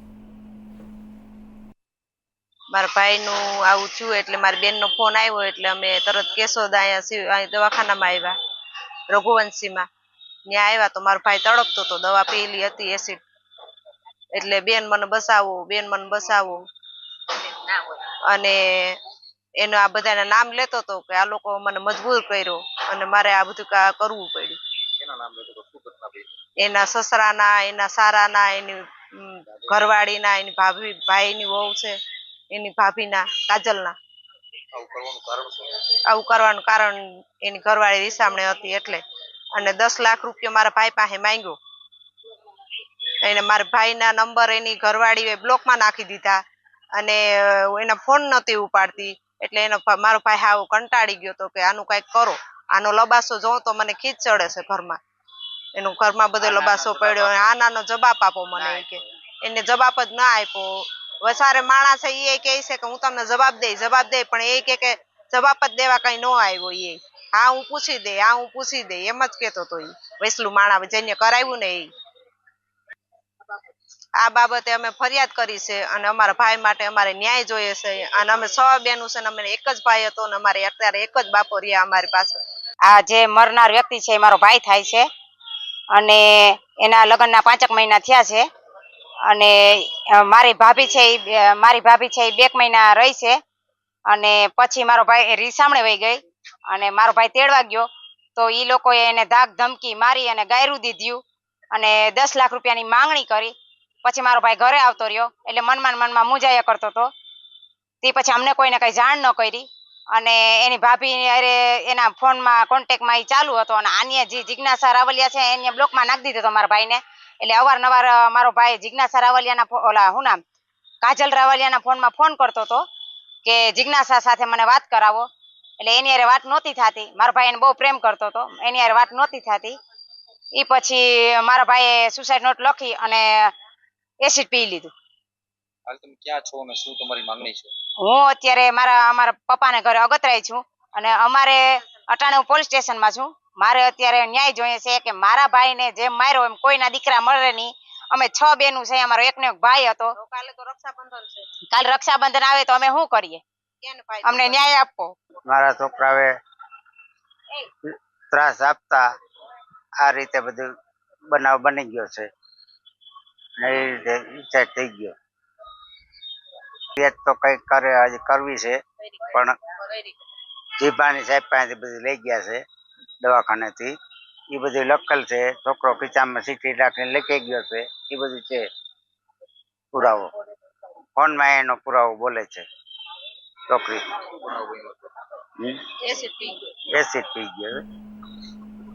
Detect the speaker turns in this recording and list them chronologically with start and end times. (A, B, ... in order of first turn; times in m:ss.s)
0:02.7-0:08.3 A
0:09.1-0:09.8 A
0:10.5-0:13.2 A
0:14.3-0:16.6 A
0:18.3-0:19.0 A
0:19.6-0:24.6 A
0:25.1-0:26.2 B
0:26.6-0:32.0 A
0:32.5-0:34.0 A
0:34.8-0:35.7 B
0:36.1-0:41.6 A
0:43.2-0:46.4 A
0:47.0-0:55.0 A
0:55.8-1:11.9 A
0:56.5-0:56.8 C
0:58.5-0:58.8 C
1:14.2-1:22.4 A
1:22.9-1:25.1 C
1:25.9-1:28.4 C
1:29.3-1:33.4 C
1:34.1-1:41.2 C
1:41.7-1:47.1 C
1:48.0-2:00.4 C
2:01.0-2:02.8 C
2:03.4-2:05.2 C
2:05.8-2:09.8 C
2:10.6-2:13.5 C
2:14.2-2:14.9 C
2:15.9-2:17.7 B
2:18.0-2:30.1 C
2:30.2-2:31.5 A
2:31.7-2:33.4 C
2:33.8-2:34.7 A
2:34.2-2:35.1 C
2:35.5-2:36.3 D
2:37.9-2:39.0 D
2:40.0-2:40.7 D
2:41.3-2:42.3 D
2:43.6-2:45.2 D
2:47.0-2:49.6 D
2:50.8-2:52.6 D
2:53.2-2:53.9 D
2:54.5-2:58.7 D
2:59.9-3:00.3 D
3:01.2-3:02.6 D
3:03.7-3:04.0 D
3:04.5-3:04.9 B
3:06.0-3:06.6 A
3:06.9-3:07.8 D